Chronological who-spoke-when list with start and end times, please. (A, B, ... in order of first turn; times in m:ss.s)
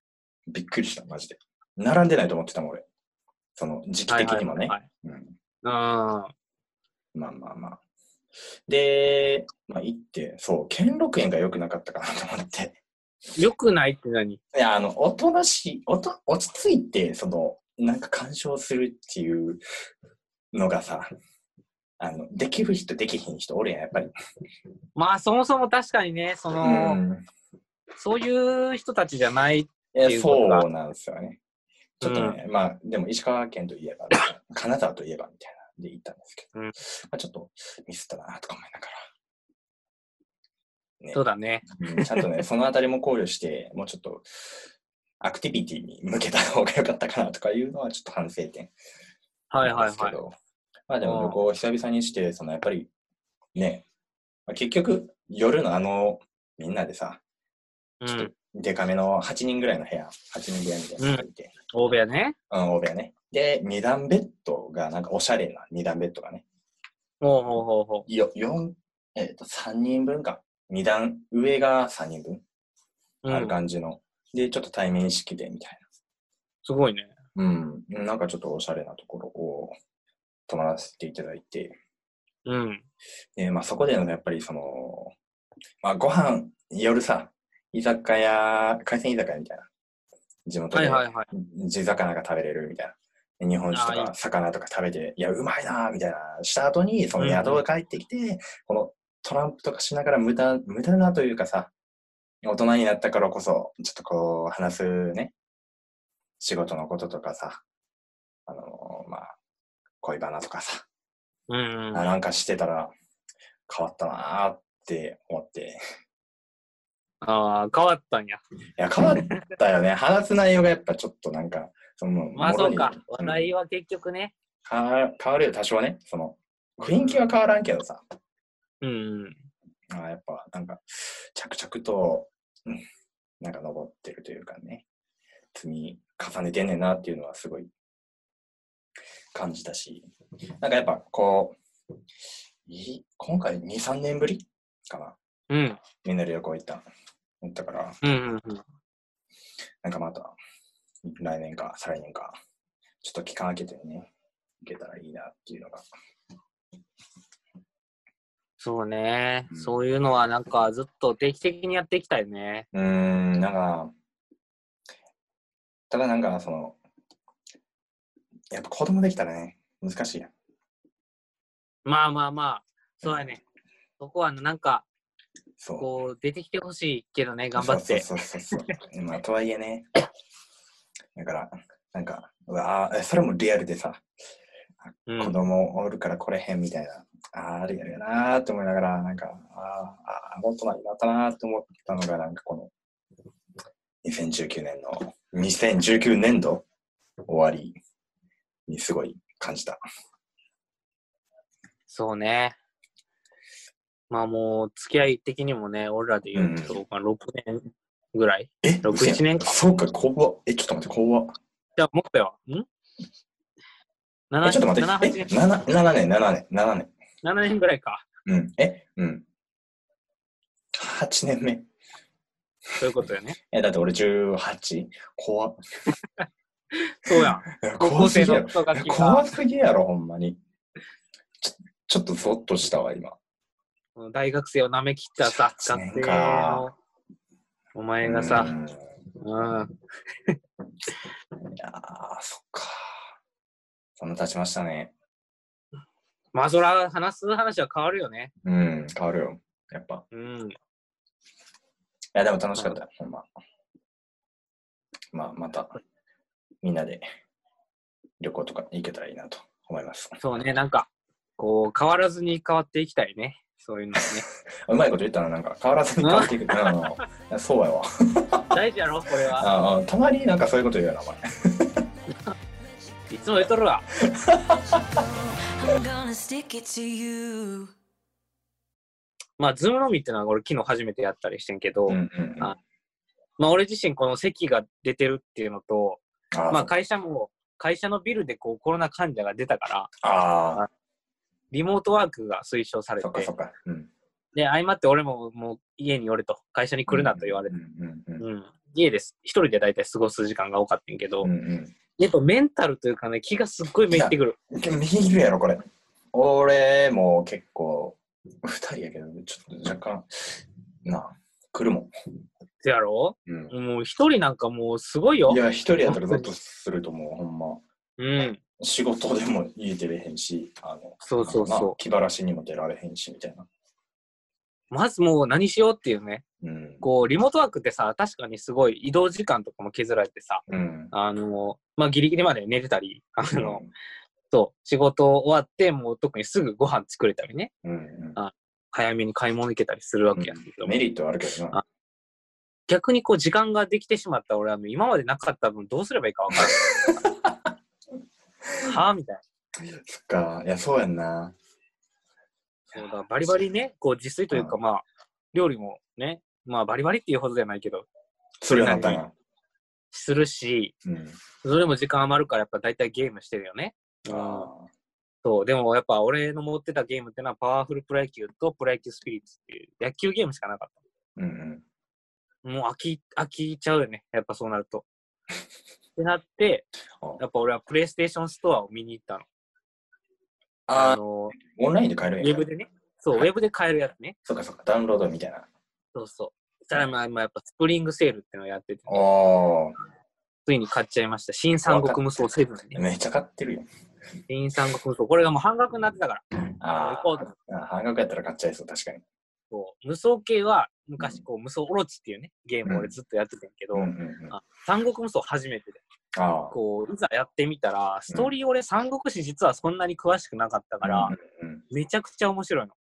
0:00.5-0:02.8 A
0:03.6-0:05.3 A
0:04.1-0:04.8 B
0:05.6-0:06.3 B
0:07.1-0:07.8 A
0:08.7-0:12.8 A
0:13.4-0:14.4 B
0:14.5-0:19.6 A
0:20.5-0:21.1 A
0:22.0-0:24.1 A
0:24.9-0:27.0 B
0:26.6-0:27.2 A
0:28.0-0:30.6 B
0:29.9-0:31.4 A
0:32.0-0:39.0 A
0:32.0-0:32.4 B
0:41.0-0:44.6 A
0:41.1-0:42.3 B
0:45.2-0:48.7 A
0:49.5-0:50.2 B
0:49.6-0:50.3 A
0:50.9-0:52.9 A
0:51.0-0:51.4 B
0:53.5-0:53.8 A
0:54.5-0:57.2 A
0:58.0-0:58.3 B
0:58.1-1:01.5 A
1:01.0-1:02.4 B
1:02.5-1:06.4 A
1:07.2-1:08.1 B
1:08.1-1:12.4 A
1:13.2-1:13.6 B
1:13.3-1:15.8 A
1:16.6-1:17.1 B
1:17.3-1:19.8 A
1:20.5-1:21.8 A
1:22.4-1:22.8 B
1:23.4-1:25.1 A
1:25.8-1:29.7 A
1:30.4-1:41.7 A
1:30.7-1:31.3 B
1:33.7-1:34.1 B
1:37.2-1:37.6 B
1:42.4-1:45.3 A
1:46.4-1:47.6 A
1:48.5-1:49.3 A
1:50.0-1:50.8 A
1:51.5-1:52.1 B
1:51.9-1:52.9 A
1:53.7-1:55.8 A
1:57.2-1:58.4 B
1:58.8-2:03.5 A
2:02.3-2:04.3 B
2:04.6-2:08.0 A
2:07.0-2:07.3 B
2:08.8-2:09.4 B
2:09.9-2:12.8 A
2:13.4-2:14.8 A
2:15.5-2:17.7 A
2:19.3-2:20.1 A
2:20.6-2:21.6 A
2:22.6-2:25.2 A
2:25.5-2:25.8 B
2:26.0-2:26.8 A
2:27.4-2:28.0 A
2:28.0-2:28.6 B
2:29.8-2:30.4 A
2:31.0-2:32.4 A
2:33.0-2:34.1 A
2:34.6-2:35.8 A
2:38.6-2:42.7 B
2:39.5-2:39.8 A
2:42.7-2:43.9 A
2:45.9-2:46.8 A
2:48.5-2:50.3 A
2:51.8-2:53.4 B
2:53.0-2:53.4 A
2:54.0-2:54.8 B
2:55.6-2:55.9 A
2:55.8-2:58.0 B
2:57.6-2:59.9 A
3:01.1-3:04.0 A
3:04.8-3:12.7 A
3:05.1-3:05.4 B
3:14.0-3:16.6 A
3:17.3-3:17.8 A
3:18.7-3:19.8 A
3:21.9-3:22.6 B
3:24.1-3:29.6 B
3:26.3-3:26.8 A
3:28.6-3:31.4 A
3:31.8-3:32.6 B
3:34.3-3:35.3 B
3:34.4-3:36.9 A
3:37.2-3:38.0 B
3:38.2-3:39.2 A
3:40.7-3:41.7 A
3:42.8-3:43.4 B
3:43.5-3:45.9 A
3:46.2-3:49.2 B
3:47.2-3:50.4 A
3:51.4-3:53.2 A
3:54.0-3:56.7 B
3:55.2-3:56.7 A
3:57.7-3:58.5 B
3:58.0-3:58.9 A
3:59.2-4:00.4 B
4:01.5-4:03.1 A
4:04.0-4:04.9 A
4:06.3-4:08.3 B
4:08.4-4:10.0 A
4:10.1-4:10.6 B
4:12.1-4:13.3 A
4:15.1-4:15.8 A
4:16.6-4:17.1 A
4:18.2-4:20.2 A
4:20.2-4:24.2 B
4:24.6-4:28.5 A
4:26.0-4:26.9 B
4:28.5-4:29.5 B
4:29.3-4:31.8 A
4:32.1-4:32.3 B
4:33.1-4:33.8 B
4:34.0-4:35.0 A
4:34.9-4:37.7 C
4:39.4-4:42.6 B
4:41.9-4:42.6 A
4:43.4-4:49.9 B
4:46.3-4:46.7 A
4:50.0-4:50.6 A
4:51.5-4:53.3 B
4:53.0-4:53.9 A
4:54.3-4:57.5 B
4:56.9-4:58.2 A
4:58.2-5:01.3 B
5:01.2-5:01.7 A
5:02.0-5:04.4 B
5:03.9-5:11.9 A
5:12.6-5:16.3 B
5:13.3-5:13.5 A
5:15.3-5:17.6 A
5:18.0-5:18.4 B
5:18.6-5:23.5 A
5:21.0-5:21.8 B
5:24.7-5:26.2 B
5:26.4-5:26.8 A
5:26.8-5:33.6 B
5:30.5-5:30.9 A
5:33.3-5:33.7 A
5:34.3-5:37.5 B
5:37.6-5:38.2 A
5:38.2-5:40.8 B
5:40.1-5:41.6 A
5:42.7-5:47.0 B
5:46.3-5:47.5 A
5:48.6-5:49.2 B
5:49.6-5:51.3 A
5:52.8-5:57.9 B
5:58.4-5:59.1 A
5:58.5-5:59.0 B
5:59.9-6:00.7 B
6:00.8-6:01.2 A
6:01.4-6:04.5 B
6:04.1-6:04.7 A
6:05.2-6:10.7 B
6:11.2-6:11.6 A
6:12.4-6:14.8 B
6:16.0-6:16.7 B
6:17.2-6:19.2 B
6:20.7-6:22.4 A
6:20.7-6:21.3 B
6:22.2-6:24.1 B
6:24.2-6:25.5 A
6:25.9-6:29.0 B
6:28.9-6:29.8 A
6:30.4-6:32.8 B
6:31.6-6:32.0 A
6:32.7-6:33.6 A
6:34.3-6:37.3 B
6:36.6-6:39.0 A
6:39.5-6:45.8 B
6:42.6-6:42.9 A
6:43.7-6:44.4 A
6:46.1-6:46.5 A
6:46.5-6:51.1 B
6:50.8-6:51.6 A
6:51.7-6:52.7 B